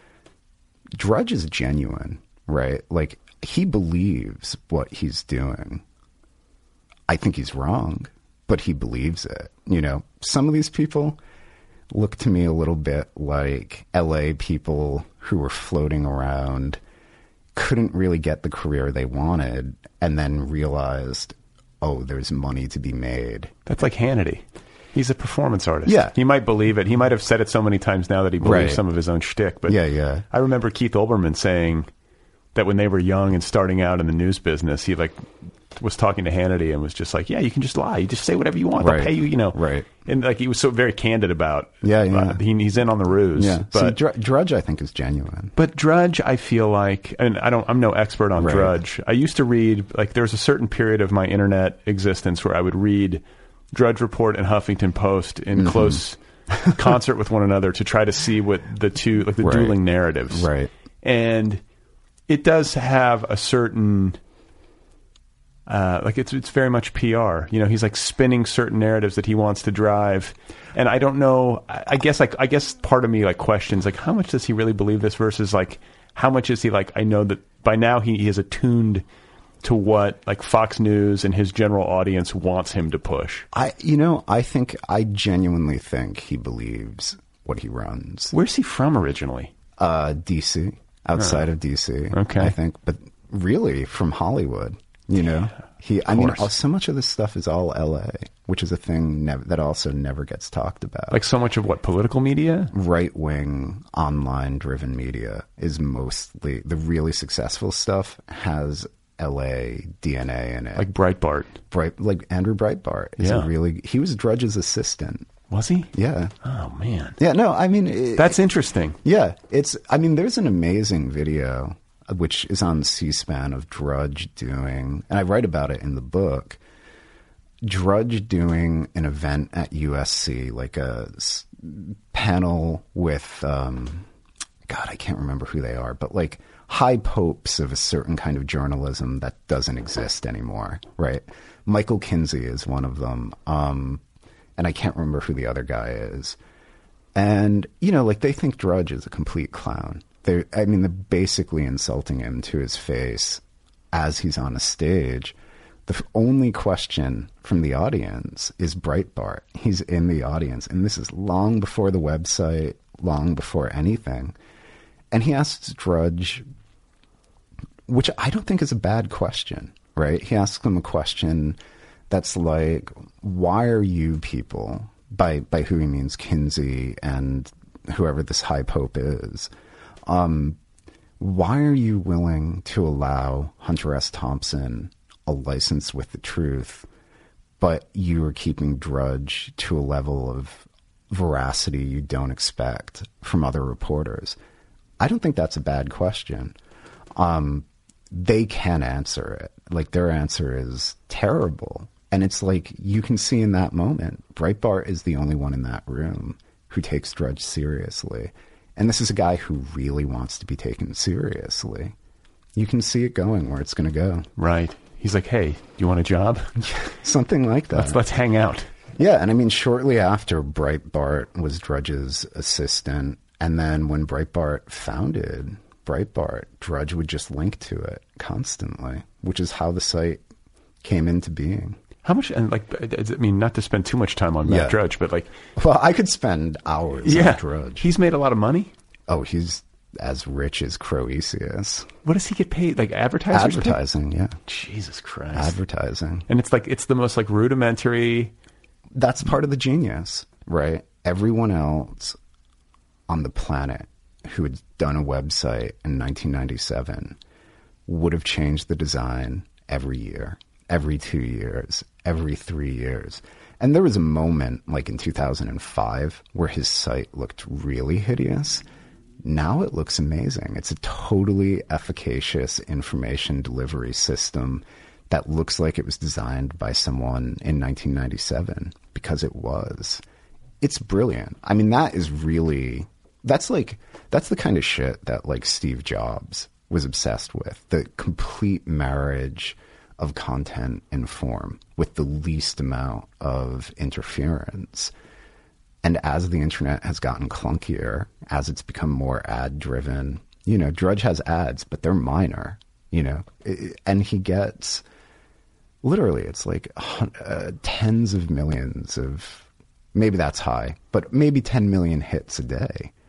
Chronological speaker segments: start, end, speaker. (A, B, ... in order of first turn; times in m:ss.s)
0:01.0-0:05.8 A
0:07.1-0:11.2 A
0:11.9-0:16.8 A
0:17.6-0:23.5 A
0:23.6-0:29.8 B
0:25.9-0:26.1 A
0:28.4-0:28.8 A
0:29.6-0:30.2 A
0:30.3-0:31.9 B
0:32.6-0:44.0 B
0:38.8-0:39.9 A
0:41.8-0:42.4 A
0:43.4-0:45.5 A
0:45.6-1:00.5 B
0:48.4-0:48.7 A
0:55.6-0:56.0 A
0:56.5-0:56.9 A
0:59.4-0:59.8 A
1:00.3-1:00.7 A
1:01.0-1:01.6 B
1:02.3-1:04.2 B
1:05.7-1:19.0 B
1:19.6-1:23.5 B
1:23.5-1:28.3 A
1:28.3-1:29.5 B
1:29.8-1:41.2 A
1:32.1-1:32.6 B
1:36.1-1:36.5 B
1:41.1-1:42.7 B
1:42.7-1:50.9 A
1:50.7-1:51.5 B
1:51.7-1:55.3 A
1:53.2-1:53.5 B
1:55.5-1:57.2 B
1:55.9-1:56.3 A
1:57.2-1:58.4 A
1:58.2-1:59.0 B
1:59.0-2:06.6 A
2:07.6-2:14.1 A
2:14.7-2:24.0 A
2:24.6-2:26.4 A
2:27.2-2:35.4 A
2:35.9-2:44.3 A
2:45.1-2:46.4 A
2:47.9-2:51.6 A
2:52.1-2:59.5 A
3:00.0-3:00.6 A
3:01.2-3:06.9 A
3:07.6-3:14.4 A
3:15.0-3:16.6 A
3:17.2-3:31.9 A
3:32.6-3:34.3 A
3:34.4-3:36.6 B
3:36.6-3:38.0 A
3:37.7-3:38.7 B
3:39.0-3:50.2 A
3:50.8-3:51.8 A
3:52.0-3:55.3 B
3:54.4-3:54.8 A
3:55.6-3:57.9 A
3:57.0-3:58.7 B
3:59.1-4:01.9 A
4:02.0-4:03.8 B
4:03.3-4:04.4 A
4:04.5-4:05.6 B
4:05.3-4:06.3 A
4:06.3-4:08.3 B
4:09.0-4:12.2 A
4:13.1-4:17.2 A
4:17.9-4:28.6 A
4:29.2-4:40.0 A
4:40.6-4:54.9 A
4:55.8-5:04.8 A
5:05.8-5:12.9 A